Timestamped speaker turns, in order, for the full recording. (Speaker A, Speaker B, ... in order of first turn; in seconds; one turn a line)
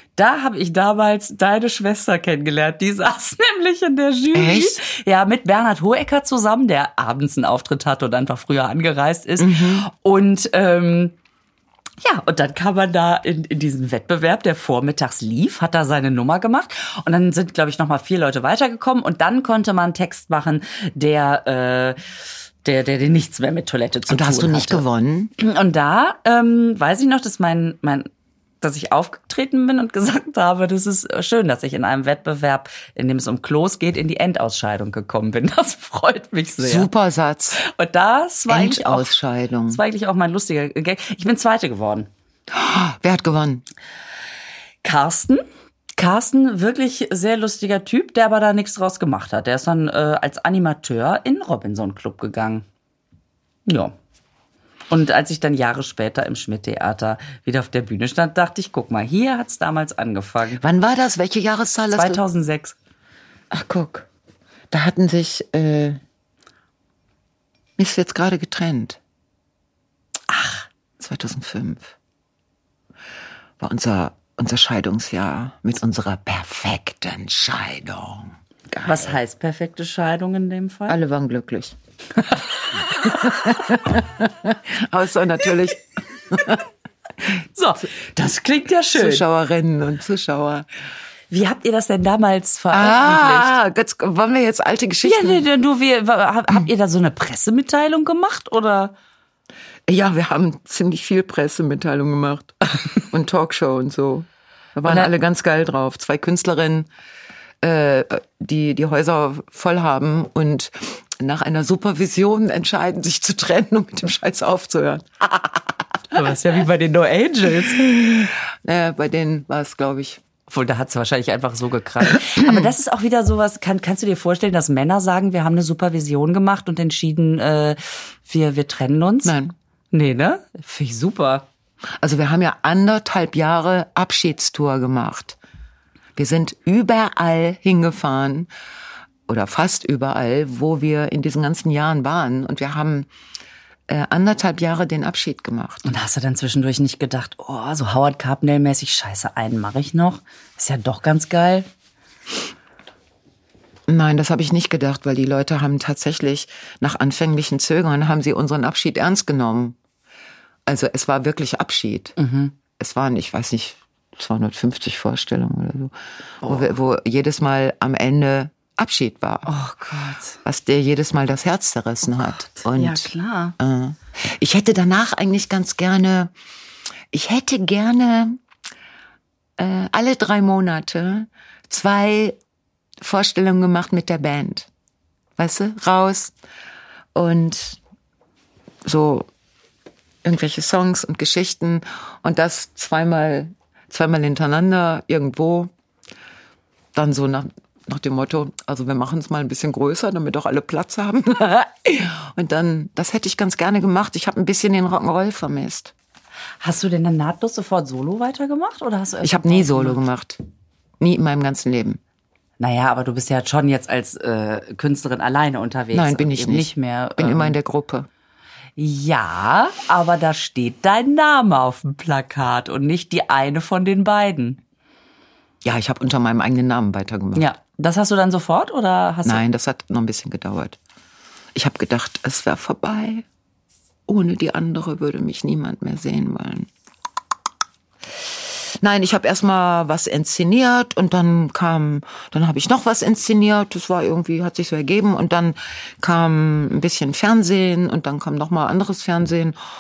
Speaker A: 0.1-11.1
Speaker B: 4.3-4.8
Speaker B: 9.4-9.9
Speaker A: 12.0-22.0
Speaker A: 22.6-24.8
Speaker B: 24.1-25.3
Speaker A: 25.4-28.1
Speaker A: 28.6-36.9
Speaker B: 36.6-37.6
Speaker A: 37.6-39.1
Speaker B: 38.5-39.8
Speaker A: 39.7-42.1
Speaker B: 42.5-43.6
Speaker A: 44.8-45.4
Speaker A: 46.0-52.6
Speaker A: 53.6-53.9
Speaker A: 54.9-60.6
Speaker B: 60.6-62.2
Speaker A: 61.9-62.8
Speaker B: 63.5-64.1
Speaker B: 64.7-66.0
Speaker B: 67.8-69.0
Speaker B: 71.0-71.9
Speaker B: 73.6-79.2
Speaker A: 78.8-81.0
Speaker B: 80.9-81.7
Speaker B: 82.9-86.6
Speaker A: 87.5-89.2
Speaker B: 88.9-90.7
Speaker A: 91.3-93.5
Speaker B: 92.7-95.4
Speaker A: 95.0-98.9
Speaker B: 99.9-106.9
Speaker B: 107.6-115.7
Speaker A: 116.1-117.9
Speaker B: 117.8-120.2
Speaker A: 120.5-129.3
Speaker B: 122.2-122.6
Speaker B: 129.2-129.5
Speaker A: 129.9-131.5
Speaker B: 132.0-135.4
Speaker B: 136.2-138.5
Speaker B: 139.3-143.1
Speaker B: 143.9-145.9
Speaker A: 145.8-151.7
Speaker B: 153.9-159.8
Speaker B: 160.7-162.2
Speaker A: 162.2-162.5
Speaker B: 162.8-169.5
Speaker A: 169.4-170.4
Speaker B: 170.4-176.3
Speaker A: 172.7-173.5
Speaker B: 177.1-178.4
Speaker B: 179.6-182.4
Speaker B: 183.0-184.7
Speaker B: 185.4-186.3
Speaker B: 187.1-187.8
Speaker B: 188.8-189.3
Speaker B: 190.2-195.7
Speaker B: 196.9-205.9
Speaker A: 206.6-210.0
Speaker B: 209.2-210.4
Speaker B: 211.0-212.0
Speaker A: 212.6-217.6
Speaker B: 215.9-218.1
Speaker A: 218.8-224.6
Speaker B: 225.6-227.5
Speaker A: 227.3-229.4
Speaker B: 229.2-230.8
Speaker B: 231.5-233.2
Speaker B: 234.1-236.7
Speaker B: 238.8-249.6